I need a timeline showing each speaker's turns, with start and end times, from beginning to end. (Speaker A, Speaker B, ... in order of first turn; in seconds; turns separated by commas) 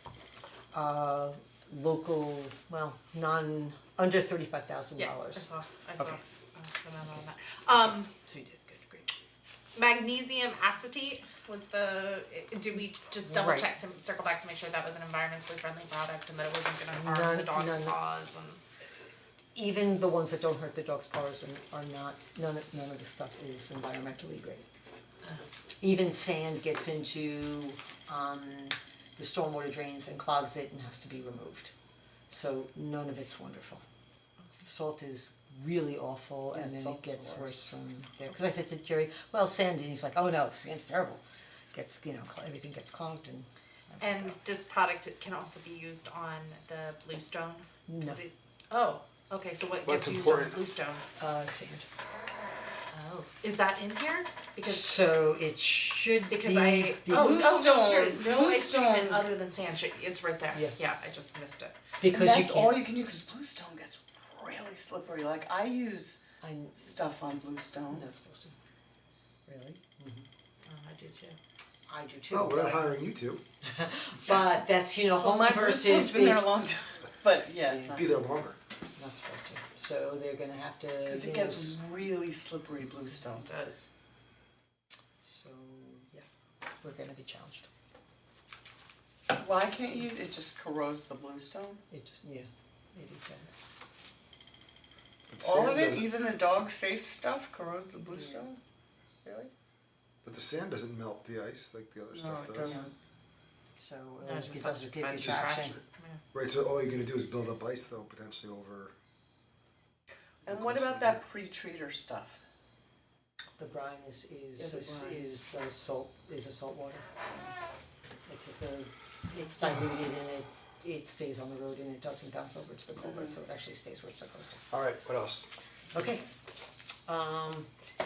Speaker A: 0.7-6.2, Speaker B: 5.0-8.1, Speaker A: 8.1-9.1, Speaker B: 9.8-18.6, Speaker A: 13.2-13.7, Speaker A: 16.9-18.0, Speaker A: 19.5-24.7, Speaker A: 25.8-31.7, Speaker A: 32.3-33.8, Speaker A: 34.6-44.4, Speaker C: 36.5-37.5, Speaker B: 44.0-51.0, Speaker A: 47.9-48.2, Speaker D: 49.9-50.6, Speaker A: 51.2-51.9, Speaker B: 52.9-55.0, Speaker A: 54.6-57.5, Speaker B: 56.3-61.8, Speaker C: 57.1-59.3, Speaker A: 62.0-62.8, Speaker C: 62.0-66.2, Speaker A: 66.4-66.9, Speaker C: 66.8-68.0, Speaker A: 67.9-68.5, Speaker A: 69.5-70.2, Speaker B: 70.6-71.4, Speaker A: 71.9-73.0, Speaker D: 72.3-73.4, Speaker A: 73.6-76.6, Speaker C: 75.2-78.1, Speaker D: 77.8-78.6, Speaker A: 79.0-81.8, Speaker C: 81.0-83.9, Speaker A: 85.2-86.2, Speaker A: 86.8-87.7, Speaker C: 89.3-91.8, Speaker A: 91.9-93.5, Speaker D: 95.3-96.1, Speaker C: 95.4-98.6, Speaker A: 98.0-98.4, Speaker C: 99.2-99.5, Speaker D: 100.2-102.8, Speaker C: 102.1-102.9, Speaker A: 102.5-102.9, Speaker A: 103.8-105.8, Speaker B: 104.2-106.2, Speaker D: 106.3-108.9, Speaker C: 110.4-112.4, Speaker D: 110.5-111.2, Speaker A: 113.6-117.0, Speaker C: 114.5-115.3, Speaker A: 118.2-124.6, Speaker D: 124.7-125.5, Speaker A: 125.9-126.2, Speaker A: 127.1-127.7